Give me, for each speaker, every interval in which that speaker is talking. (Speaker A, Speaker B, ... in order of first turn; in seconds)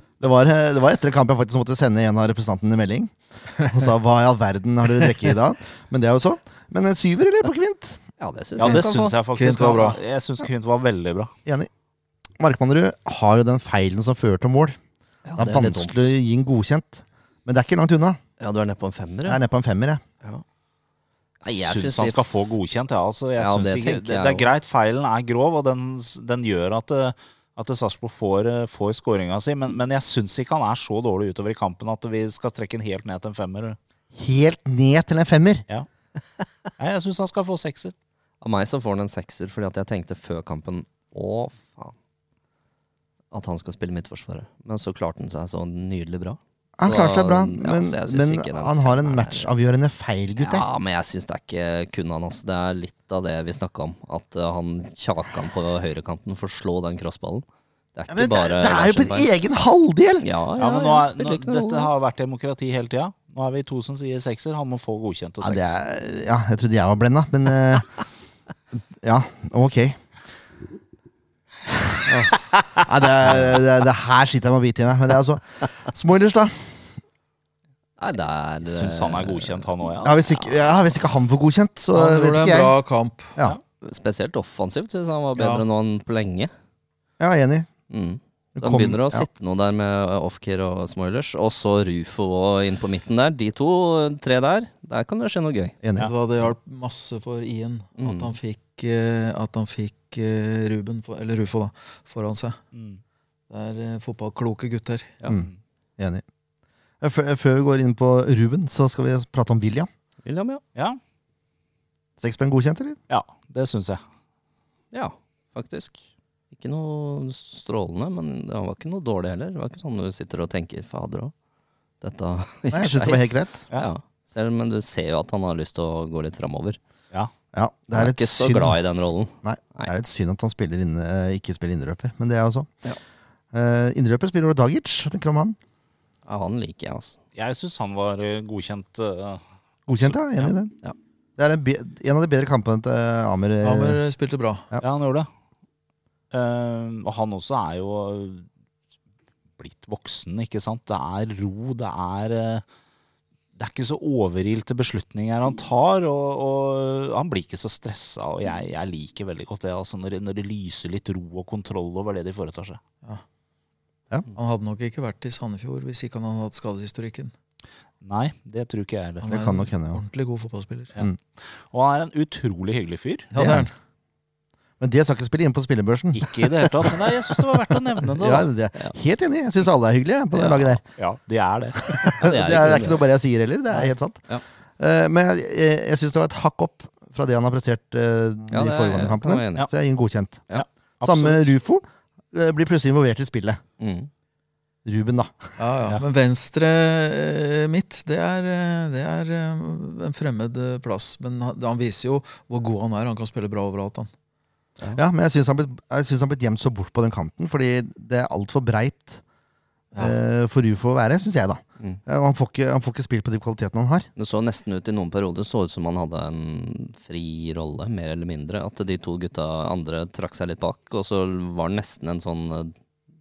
Speaker A: 0.2-8.0, 12.4-14.8, 15.4-18.2, 19.2-20.0, 34.1-35.6, 46.8-50.6, 58.1-60.2, 65.4-67.9, 69.0-70.0, 72.0-76.8, 80.0-82.7, 87.2-87.7, 88.5-89.3, 95.8-96.1, 105.2-106.2, 107.0-109.9, 112.2-113.0, 122.7-123.7, 127.5-128.8, 129.4-132.7, 133.5-135.6, 139.9-140.7, 141.4-144.0, 169.2-170.0, 173.3-173.7, 174.8-177.1, 178.2-180.8, 181.9-184.3, 184.8-190.4, 191.0-193.6, 194.8-195.5, 204.9-209.2, 210.0-214.1
Speaker B: 8.2-9.1, 15.2-16.1, 18.4-19.4, 21.4-22.2, 23.4-24.4, 38.4-41.9, 43.3-49.5, 50.4-57.4, 58.0-59.3, 60.2-61.9, 78.0-79.7, 80.3-80.6, 83.8-86.5, 87.9-95.7, 98.0-98.3, 110.2-110.6, 114.9-121.3, 122.0-126.8, 127.9-129.9, 136.2-137.2, 180.3-180.7, 182.2-183.1, 188.5-189.7, 193.8-194.1, 214.2-222.7
Speaker C: 8.6-11.3, 21.4-33.8, 36.8-37.9, 60.6-65.8, 78.6-80.1, 102.7-103.0, 113.1-114.0, 137.3-140.5, 144.8-145.3, 146.3-148.4, 149.6-152.6, 153.6-162.8, 168.0-169.2, 170.9-173.3, 176.1-178.5, 181.0-182.3, 190.5-191.4
Speaker D: 8.7-10.0, 81.9-83.4, 85.3-85.6, 96.0-102.6, 103.5-105.2, 143.6-144.7, 164.3-167.3, 169.2-171.0, 173.3-173.7, 195.6-204.1